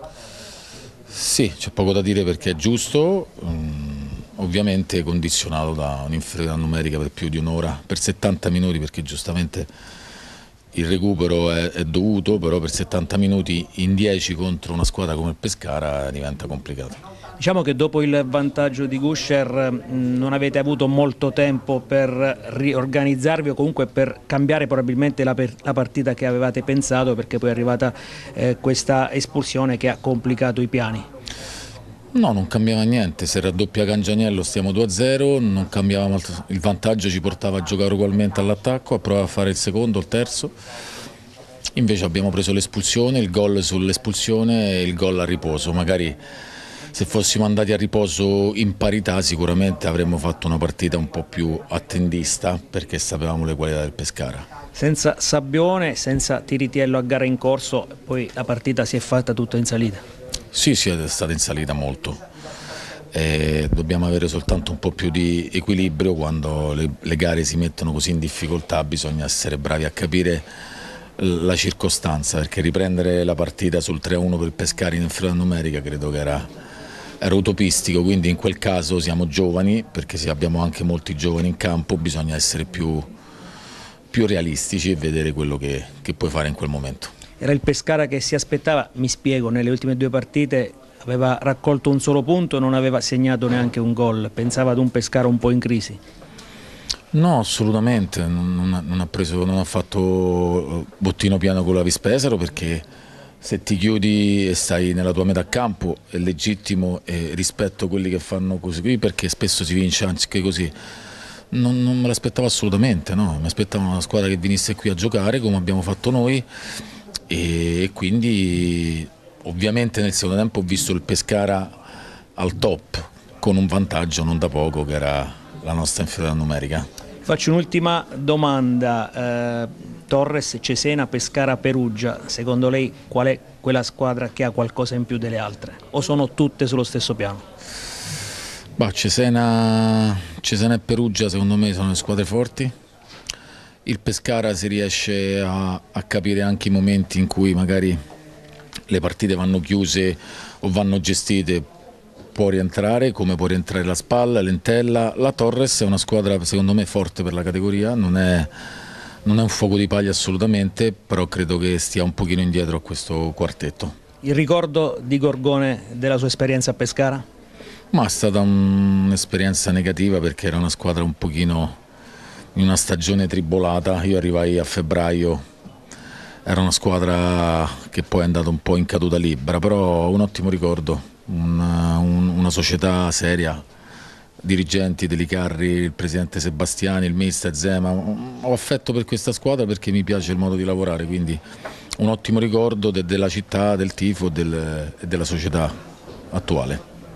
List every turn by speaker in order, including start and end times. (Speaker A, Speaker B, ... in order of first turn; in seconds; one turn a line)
Speaker A: 1.1-9.7
Speaker A: 10.7-17.0
Speaker B: 17.4-31.1
Speaker A: 32.1-40.5
Speaker A: 41.8-46.2
Speaker A: 46.9-54.5
Speaker B: 54.8-60.0
Speaker A: 60.5-62.2
Speaker A: 63.1-70.5
Speaker A: 71.2-76.5
Speaker A: 77.2-83.1
Speaker A: 84.1-87.1
Speaker B: 87.4-96.0
Speaker A: 97.1-102.8
Speaker A: 103.4-110.7
Speaker A: 111.5-116.5
Speaker A: 117.3-121.7
Speaker A: 122.4-126.9
Speaker B: 127.3-137.4
Speaker A: 138.8-142.7
Speaker A: 143.9-148.0
Speaker A: 148.9-151.7
Speaker A: 152.3-158.5
Speaker A: 159.2-163.9
Speaker B: 164.2-167.2
Speaker A: 167.9-171.8
Speaker A: 172.6-175.4
Speaker A: 176.5-183.6
Speaker A: 184.4-191.4
Speaker A: 192.0-195.7
Speaker A: 196.3-196.8